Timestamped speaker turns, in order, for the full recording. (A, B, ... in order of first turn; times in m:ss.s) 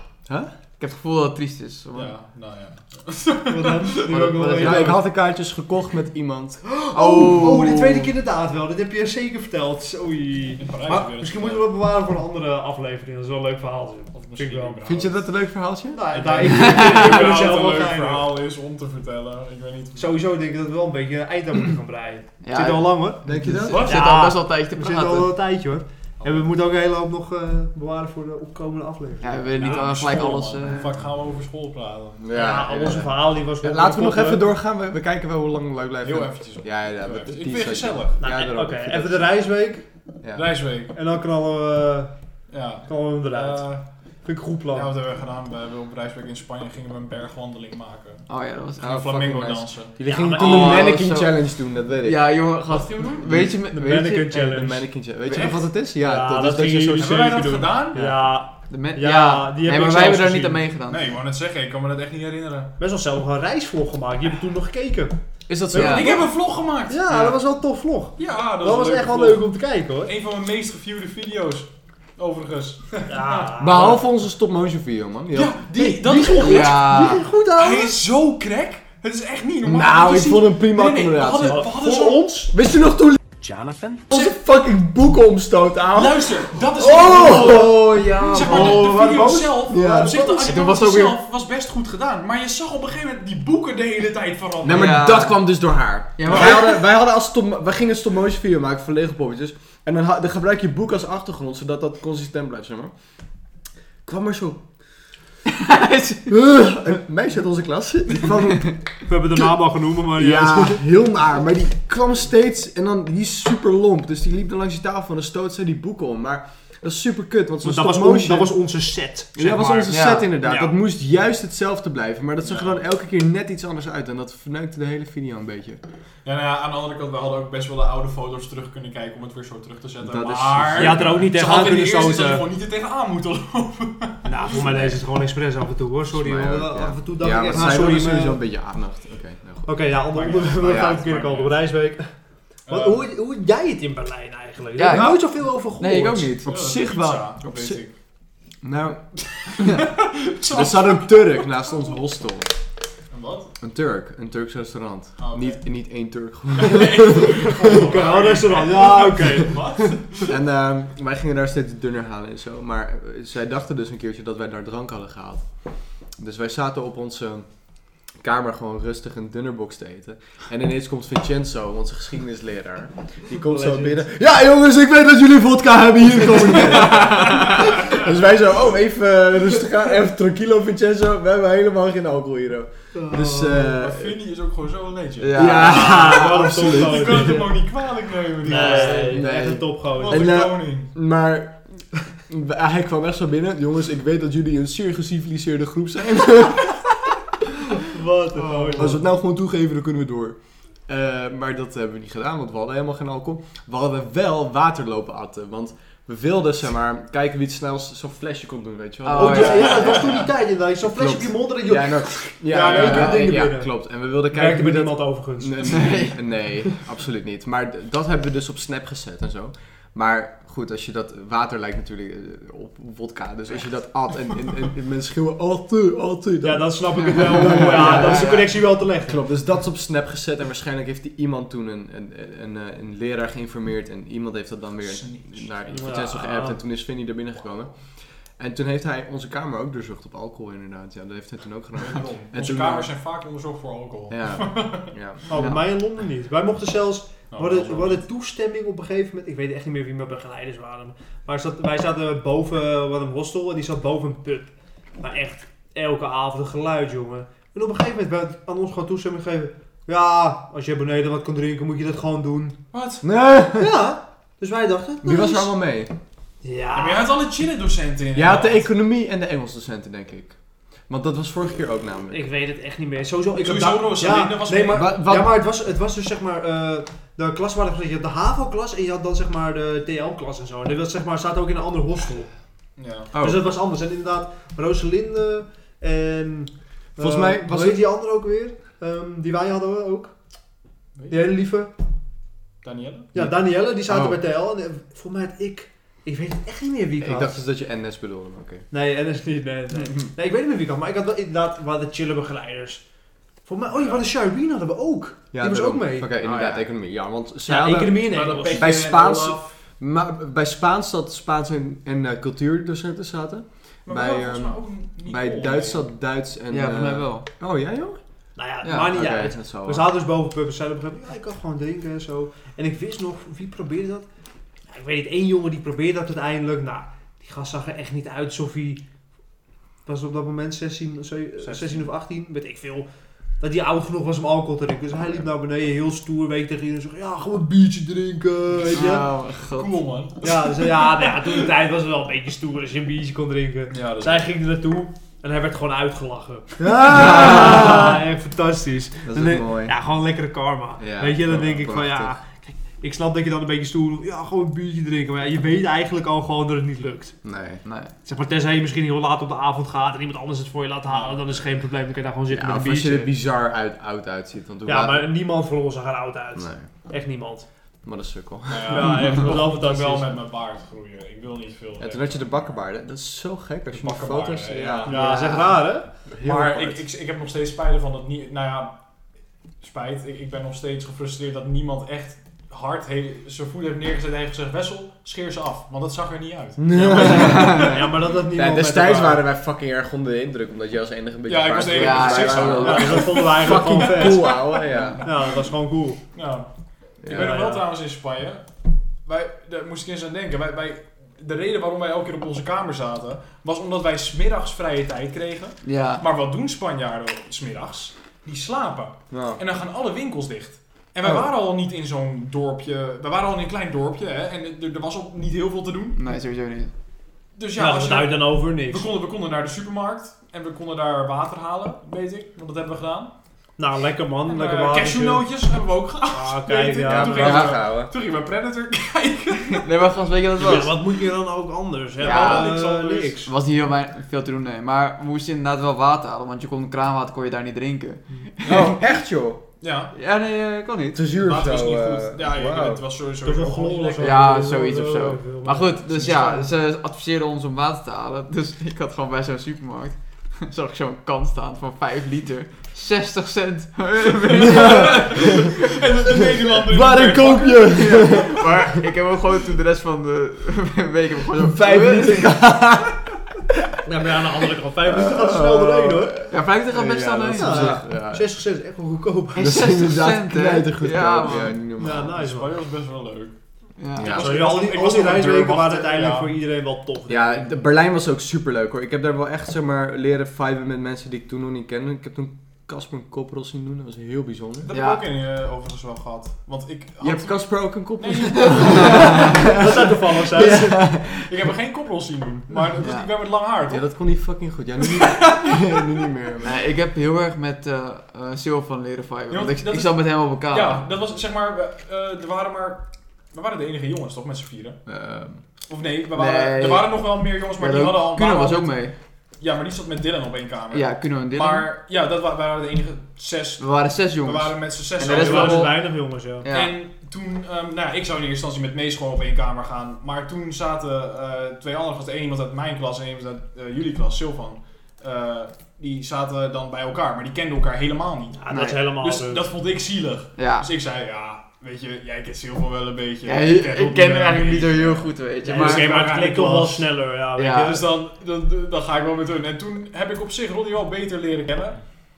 0:00.8-0:02.1 A
0:01.9-0:04.2 B
0:03.5-0:05.0 C
0:04.1-0:05.0 A
0:04.5-0:06.6 D
0:06.6-0:15.0 C
0:06.9-0:08.1 A
0:10.6-0:11.6 B
0:14.1-0:15.2 B
0:14.8-0:16.0 D
0:15.9-0:18.3 C
0:16.1-0:20.2 B
0:16.5-0:17.3 A
0:20.0-0:29.9 C
0:22.4-0:25.3 A
0:23.2-0:23.9 D
0:23.7-0:24.1 B
0:26.2-0:26.5 B
0:29.2-0:31.0 A
0:29.5-0:33.0 B
0:32.2-0:39.4 D
0:32.3-0:34.5 C
0:36.0-0:38.2 B
0:38.2-0:39.8 C
0:40.2-0:40.5 D
0:40.3-0:40.9 B
0:40.9-0:42.1 C
0:42.5-0:43.8 B
0:42.9-0:43.7 C
0:44.2-0:44.9 C
0:44.7-0:48.2 B
0:48.3-0:49.0 A
0:48.8-0:49.9 B
0:48.8-0:52.2 D
0:50.0-0:51.0 C
0:50.3-0:51.4 A
0:52.0-0:54.6 A
0:52.7-0:53.5 B
0:53.7-0:54.8 C
0:54.3-0:57.4 D
0:55.3-0:55.6 A
0:55.9-1:00.6 C
0:56.9-0:58.2 B
0:58.7-1:01.0 A
1:00.9-1:02.7 B
1:02.8-1:05.1 C
1:05.5-1:06.2 D
1:05.7-1:06.3 C
1:05.7-1:07.4 B
1:05.7-1:06.1 A
1:06.9-1:10.1 C
1:08.2-1:09.5 B
1:10.0-1:13.5 B
1:13.1-1:14.0 C
1:13.6-1:15.7 D
1:15.3-1:22.3 B
1:15.8-1:17.9 C
1:16.4-1:17.2 A
1:19.6-1:21.8 D
1:21.4-1:22.5 C
1:22.5-1:23.2 D
1:23.4-1:24.1 C
1:24.1-1:30.6 D
1:25.9-1:35.1 B
1:27.4-1:30.4 C
1:28.5-1:28.7 A
1:30.4-1:31.2 A
1:34.6-1:42.9 D
1:34.7-1:35.4 A
1:36.2-1:36.8 A
1:36.3-1:36.6 B
1:44.0-1:44.6 D
1:45.5-1:46.3 A
1:46.3-1:48.8 D
1:49.0-1:50.8 C
1:50.1-1:58.5 D
1:57.6-2:00.7 C
1:59.3-2:05.8 D
1:59.9-2:00.3 A
2:02.4-2:02.8 B
2:06.2-2:14.6 B
2:10.0-2:11.2 D
2:10.7-2:12.4 C
2:14.2-2:18.4 C
2:14.6-2:15.0 D
2:16.1-2:19.8 D
2:19.6-2:22.1 C
2:20.1-2:21.6 B
2:20.6-2:21.0 D
2:22.7-2:23.0 B
2:22.7-2:26.3 C
2:24.8-2:26.5 A
2:26.2-2:27.8 D
2:26.4-2:27.9 B
2:28.6-2:29.9 D
2:29.4-2:32.0 B
2:30.5-2:32.5 D
2:33.1-2:33.5 B
2:33.6-2:37.8 D
2:35.2-2:35.6 B
2:36.5-2:40.3 B
2:37.1-2:39.9 C
2:40.3-2:45.4 D
2:46.2-2:47.5 D
2:48.2-3:04.1 D
2:53.3-2:54.0 C
3:02.9-3:03.7 C
3:03.6-3:09.3 B
3:05.2-3:06.2 A
3:05.3-3:07.4 D
3:05.5-3:07.6 C
3:08.4-3:10.4 C
3:08.5-3:09.2 A
3:09.1-3:16.9 D
3:09.8-3:10.9 B
3:17.8-3:19.0 C
3:18.4-3:19.0 B
3:18.7-3:30.2 D
3:29.0-3:29.9 A
3:29.1-3:33.7 C
3:29.7-3:30.2 B
3:30.8-3:48.5 D
3:32.6-3:33.3 A
3:34.3-3:35.9 C
3:35.6-3:36.2 A
3:46.4-3:49.2 C
3:47.0-3:48.5 A
3:49.1-3:57.7 D
3:54.8-3:55.6 B
3:55.7-3:56.6 C
3:58.4-4:02.9 D
4:01.8-4:04.9 B
4:04.1-4:05.3 D
4:05.3-4:22.6 C
4:05.3-4:05.6 A
4:07.3-4:08.0 B
4:22.7-4:23.0 B
4:23.0-4:23.7 D
4:23.5-4:25.5 C
4:25.0-4:25.9 D
4:26.4-4:27.1 C
4:26.7-4:28.6 B
4:28.1-4:30.3 D
4:30.9-4:32.3 D
4:32.1-4:42.3 C
4:33.4-4:35.0 B
4:34.7-4:35.4 D
4:42.8-4:43.1 B
4:43.1-4:43.5 D
4:43.1-4:50.1 C
4:47.0-4:47.8 D
4:50.9-4:51.3 B
4:51.1-4:51.7 C
4:52.6-4:53.1 B
4:53.1-4:57.4 C
4:57.0-4:58.6 D
4:58.7-5:02.8 C
5:03.4-5:06.1 C
5:03.7-5:04.1 B
5:05.3-5:18.0 D
5:06.2-5:06.7 A
5:07.4-5:08.7 C
5:08.0-5:09.5 B
5:13.8-5:15.8 B
5:16.5-5:17.2 A
5:18.4-5:24.1 C
5:18.6-5:18.9 A
5:18.9-5:19.9 D
5:24.7-5:28.8 C
5:29.8-5:32.9 C
5:31.4-5:31.9 B
5:33.4-5:39.1 C
5:38.7-5:39.7 A
5:39.5-5:41.1 B
5:40.2-5:57.2 C
5:43.7-5:44.2 B
5:46.6-5:48.0 D
5:49.0-5:49.7 D
5:50.8-5:52.2 D
5:57.2-5:57.6 D
5:57.6-5:57.9 A
5:58.0-6:03.1 C
6:00.9-6:01.2 B
6:02.3-6:05.1 D
6:04.6-6:07.4 C
6:06.4-6:06.6 D
6:07.8-6:09.1 D
6:08.5-6:12.2 B
6:08.7-6:10.2 C
6:11.8-6:15.3 D
6:13.7-6:15.6 B
6:14.8-6:15.9 C
6:15.0-6:15.6 A
6:16.1-6:16.8 D
6:16.2-6:18.8 B
6:19.6-6:27.7 B
6:26.6-6:35.0 D
6:26.9-6:29.2 C
6:27.2-6:27.7 A
6:31.3-6:35.4 B
6:31.6-6:33.0 A
6:32.6-6:34.4 C
6:35.0-6:36.0 C
6:36.1-6:36.5 B
6:37.0-6:37.4 D
6:37.0-6:38.5 B
6:37.1-6:37.7 C
6:39.0-6:56.0 B
6:45.6-6:46.0 A
6:49.1-6:49.4 D
6:56.0-6:56.7 A
6:57.3-7:03.1 B
6:57.6-6:58.9 C
7:03.6-7:05.2 C
7:04.2-7:09.7 B
7:06.1-7:07.4 C
7:06.8-7:07.9 D
7:07.2-7:07.5 A
7:09.5-7:10.8 A
7:10.4-7:13.3 C
7:12.0-7:13.2 B
7:12.0-7:12.6 A
7:13.2-7:18.8 A
7:18.4-7:19.4 D
7:18.5-7:18.7 B
7:19.6-7:19.9 B
7:19.9-7:21.0 A
7:20.9-7:22.8 D
7:21.2-7:24.2 B
7:23.2-7:26.5 C
7:24.0-7:35.6 A
7:34.3-7:38.2 B
7:34.5-7:35.2 D
7:36.5-7:38.8 D
7:37.7-7:42.3 A
7:41.4-7:43.0 D
7:43.8-7:46.2 C
7:44.8-7:48.3 D
7:46.3-7:47.8 A
7:47.3-7:49.7 C
7:49.3-7:51.6 A
7:49.4-7:52.2 D
7:51.8-7:52.5 C
7:52.1-7:53.3 B
7:53.8-7:54.2 A
7:54.0-7:54.4 D
7:54.0-7:56.3 B
7:54.1-7:57.5 C
7:57.1-8:04.7 D
8:04.6-8:09.4 B
8:04.7-8:05.0 A
8:07.0-8:11.5 D
8:08.7-8:10.8 C
8:11.0-8:13.8 B
8:12.8-8:13.1 A
8:13.7-8:16.5 D
8:16.4-8:20.8 A
8:19.3-8:24.8 B
8:24.8-8:25.4 D
8:25.7-8:28.7 B
8:26.1-8:28.9 A
8:29.4-8:33.6 B
8:30.7-8:31.7 A
8:33.6-8:35.8 A
8:34.2-8:35.8 B
8:35.0-8:36.5 C
8:36.4-8:36.8 A
8:36.5-8:48.4 B
8:48.4-8:49.5 C
8:48.5-8:48.8 A
8:48.9-8:56.8 B
8:50.4-8:50.7 A
8:53.2-8:56.0 A
8:55.4-8:57.8 C
8:57.4-8:57.8 A
8:57.6-9:01.8 B